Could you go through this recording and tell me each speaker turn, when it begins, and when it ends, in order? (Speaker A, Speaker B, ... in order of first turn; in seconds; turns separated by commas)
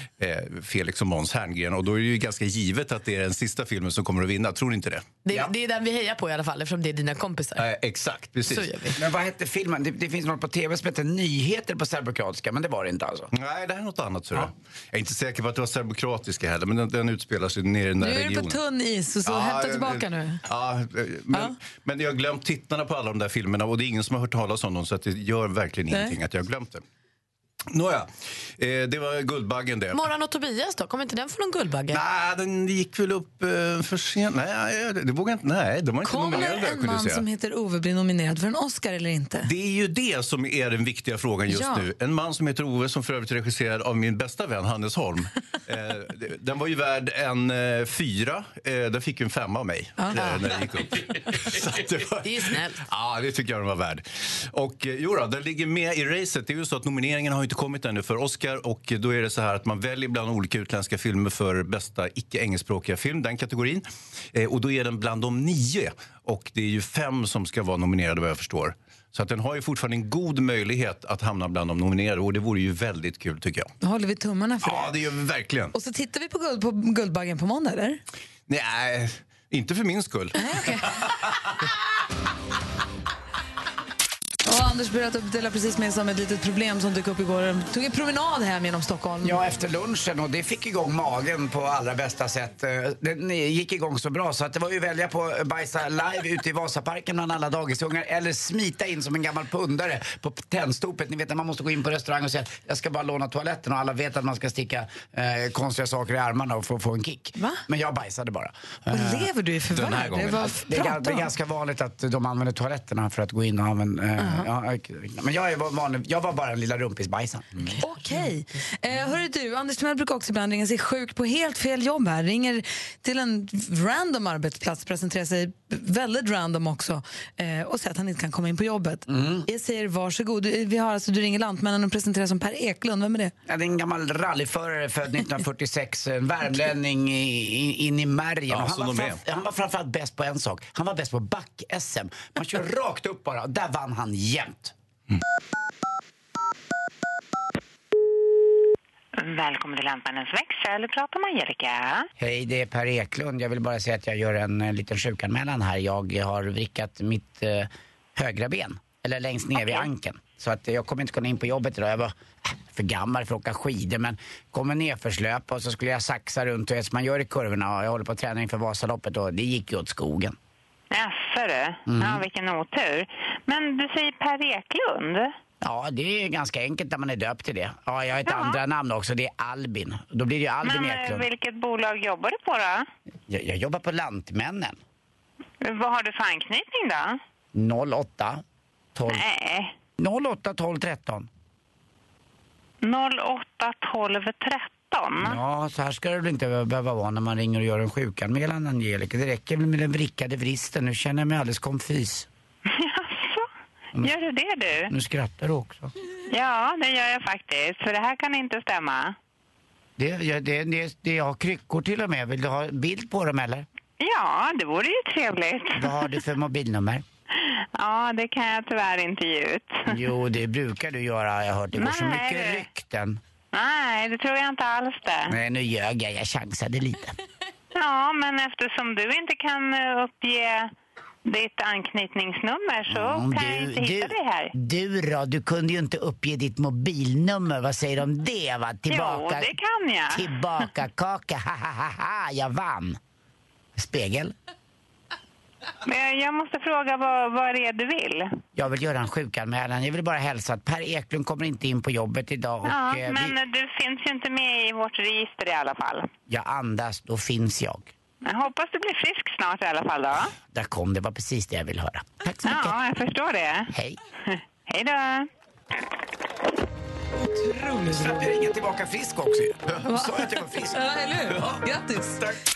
Speaker A: 0.2-5.0, Speaker B: 5.2-7.6, Speaker A: 7.6-8.7, Speaker B: 8.5-9.0, Speaker C: 9.0-13.3, Speaker A: 13.3-18.6, Speaker D: 18.0-20.4, Speaker A: 19.2-26.8, Speaker D: 25.9-26.1, Speaker A: 27.7-30.0, Speaker B: 29.9-32.0, Speaker A: 31.9-37.2, Speaker D: 36.0-39.5, Speaker A: 39.4-73.7, Speaker D: 41.5-41.8, Speaker B: 50.1-50.5, Speaker B: 52.2-52.8, Speaker D: 73.8-74.9, Speaker A: 74.6-75.7, Speaker D: 75.7-78.0, Speaker A: 78.5-81.5, Speaker D: 80.4-81.0, Speaker D: 84.4-89.4, Speaker C: 89.2-109.3, Speaker D: 107.4-107.6, Speaker D: 108.9-111.3, Speaker A: 109.7-110.5, Speaker C: 110.4-117.8, Speaker D: 117.8-133.3, Speaker C: 129.1-129.4, Speaker C: 133.4-144.7, Speaker A: 138.5-139.2, Speaker E: 149.2-152.1, Speaker C: 152.2-170.3, Speaker E: 170.9-175.3, Speaker C: 171.9-172.2, Speaker C: 175.6-181.3, Speaker E: 178.2-178.6, Speaker E: 180.6-182.9, Speaker C: 183.3-184.8, Speaker E: 185.6-187.2, Speaker C: 187.5-188.4, Speaker C: 188.9-189.2, Speaker E: 189.1-189.7, Speaker C: 190.0-191.3, Speaker E: 192.8-195.4, Speaker C: 195.2-202.3, Speaker E: 202.7-203.5, Speaker E: 204.0-204.9, Speaker C: 204.9-205.9, Speaker E: 206.3-209.1, Speaker C: 210.0-213.7, Speaker E: 214.0-215.9, Speaker C: 215.8-217.0, Speaker E: 217.4-220.0, Speaker C: 219.9-223.2, Speaker E: 221.7-222.7, Speaker E: 223.5-225.4, Speaker C: 225.3-227.1, Speaker E: 227.7-230.7, Speaker E: 231.2-234.5, Speaker C: 232.9-239.5, Speaker E: 238.9-240.4, Speaker C: 240.1-243.0, Speaker C: 243.8-244.3, Speaker E: 245.8-248.3, Speaker C: 248.6-253.3, Speaker E: 252.6-256.1, Speaker C: 256.3-257.9, Speaker E: 258.2-260.3, Speaker C: 260.5-262.8, Speaker E: 262.4-263.7, Speaker C: 263.7-264.0, Speaker E: 264.7-265.3, Speaker B: 267.3-268.2, Speaker C: 267.9-270.8, Speaker D: 269.8-272.2